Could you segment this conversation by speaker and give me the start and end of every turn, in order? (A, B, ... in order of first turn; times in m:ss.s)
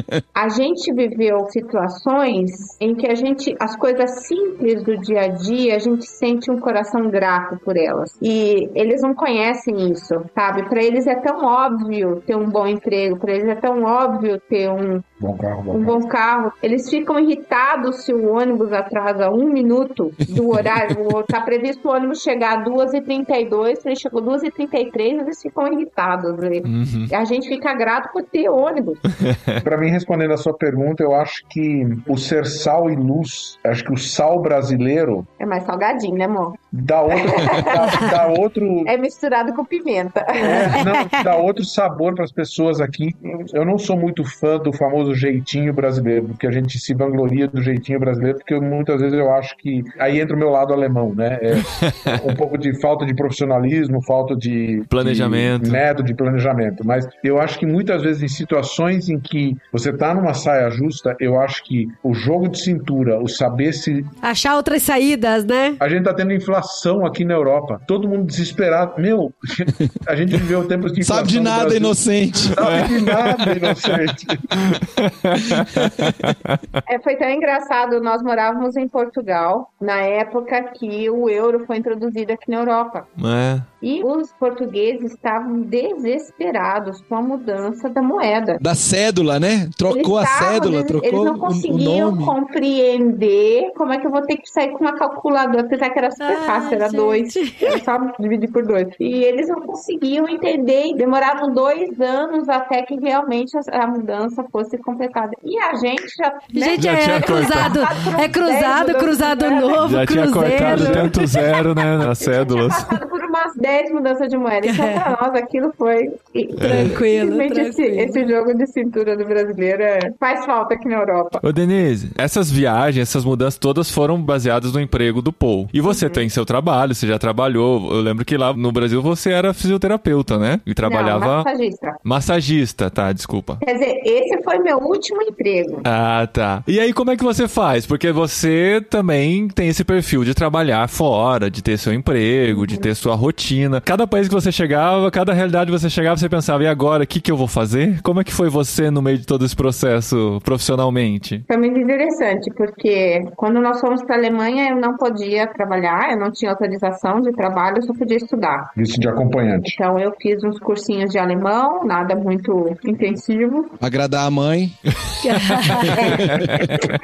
0:00.3-0:15.1 A
0:15.2-0:16.0 B
0:15.7-0:29.1 A
0:26.6-0:27.1 C
0:29.2-0:29.6 C
0:29.6-0:35.3 B
0:35.4-0:38.3 A
0:36.7-0:38.9 B
0:38.8-0:40.9 A
0:40.4-1:04.1 B
0:40.8-0:41.1 D
0:43.2-0:43.5 A
0:51.6-0:52.2 C
0:54.9-0:55.8 C
1:04.2-1:05.8 D
1:05.8-1:14.7 B
1:11.0-1:12.9 E
1:14.6-1:16.6 C
1:16.8-1:23.1 A
1:23.2-1:23.7 C
1:23.8-1:28.6 A
1:28.6-1:32.4 E
1:29.9-1:49.8 A
1:36.2-1:37.8 D
1:46.5-1:51.6 D
1:46.8-1:48.2 C
1:49.8-1:53.0 C
1:50.4-2:01.4 A
1:54.6-1:55.1 D
1:56.6-1:58.3 D
1:56.6-1:56.9 C
2:01.4-2:11.5 C
2:05.8-2:06.2 A
2:10.8-2:12.0 A
2:12.0-2:13.6 C
2:13.6-2:15.9 A
2:15.8-2:31.4 C
2:22.5-2:22.9 A
2:31.5-2:38.7 A
2:38.8-2:39.8 B
2:39.6-2:43.8 A
2:43.8-2:44.7 E
2:45.2-2:46.0 D
2:45.9-2:46.7 A
2:45.9-2:46.9 C
2:46.0-2:46.8 E